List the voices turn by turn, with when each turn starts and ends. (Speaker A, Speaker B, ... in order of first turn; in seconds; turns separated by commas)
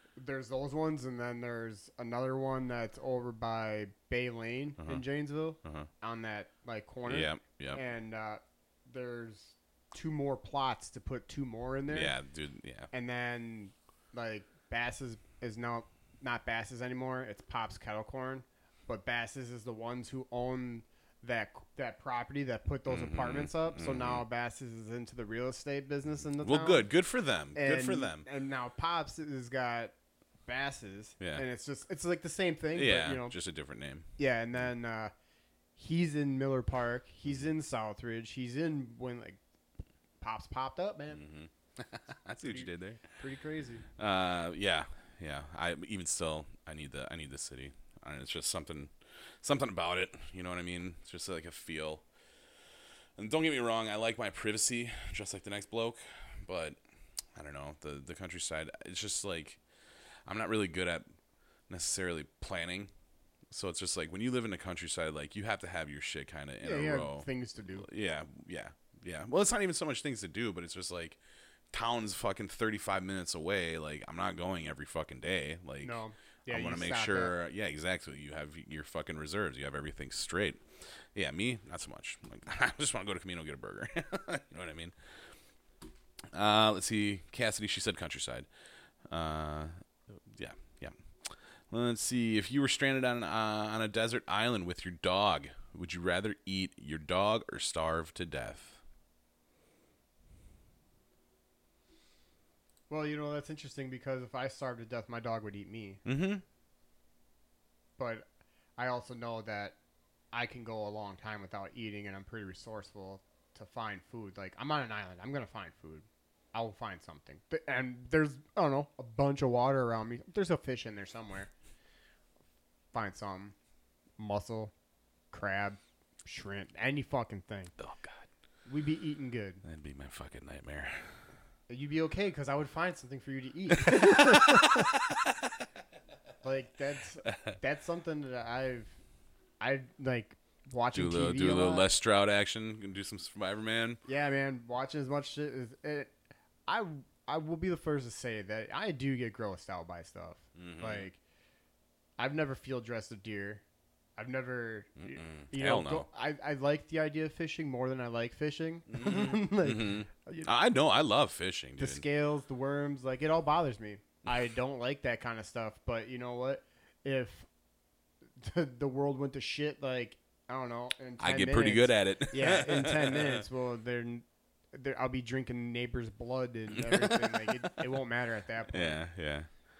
Speaker A: 0.1-12.1, Speaker B: 4.8-5.0, Speaker B: 5.6-5.9, Speaker B: 7.0-7.8, Speaker B: 11.9-12.9, Speaker A: 12.9-26.9, Speaker B: 22.9-24.2, Speaker B: 26.4-28.3, Speaker A: 27.5-29.9, Speaker A: 30.4-33.4, Speaker B: 31.2-31.4, Speaker B: 32.7-34.1, Speaker A: 34.2-35.1, Speaker A: 35.8-39.4, Speaker A: 40.2-41.2, Speaker B: 41.1-43.1, Speaker A: 42.4-43.8, Speaker B: 44.0-52.0, Speaker B: 53.2-56.8, Speaker B: 57.3-59.6, Speaker B: 60.2-61.1, Speaker B: 61.7-62.9, Speaker B: 63.5-71.2, Speaker A: 66.6-67.8, Speaker B: 71.7-84.9, Speaker A: 75.8-77.3, Speaker B: 86.3-88.5, Speaker B: 89.1-98.8, Speaker A: 102.9-106.0, Speaker B: 106.0-106.4, Speaker A: 108.0-109.8, Speaker A: 110.3-121.5, Speaker A: 122.9-123.5, Speaker A: 124.2-124.7, Speaker A: 125.3-127.7, Speaker B: 127.8-128.3, Speaker A: 128.7-129.6, Speaker B: 129.6-131.3, Speaker A: 131.7-134.9, Speaker B: 133.8-135.5, Speaker A: 136.4-139.0, Speaker B: 137.2-137.6, Speaker A: 139.6-141.9, Speaker B: 140.9-144.0, Speaker A: 144.1-146.1, Speaker A: 146.7-151.2, Speaker B: 150.6-151.1, Speaker A: 152.2-153.6, Speaker A: 154.2-160.5, Speaker B: 155.0-156.1, Speaker B: 158.9-162.0, Speaker A: 161.8-167.5, Speaker A: 168.3-179.0, Speaker B: 171.2-173.4, Speaker B: 176.7-177.8, Speaker B: 178.7-179.5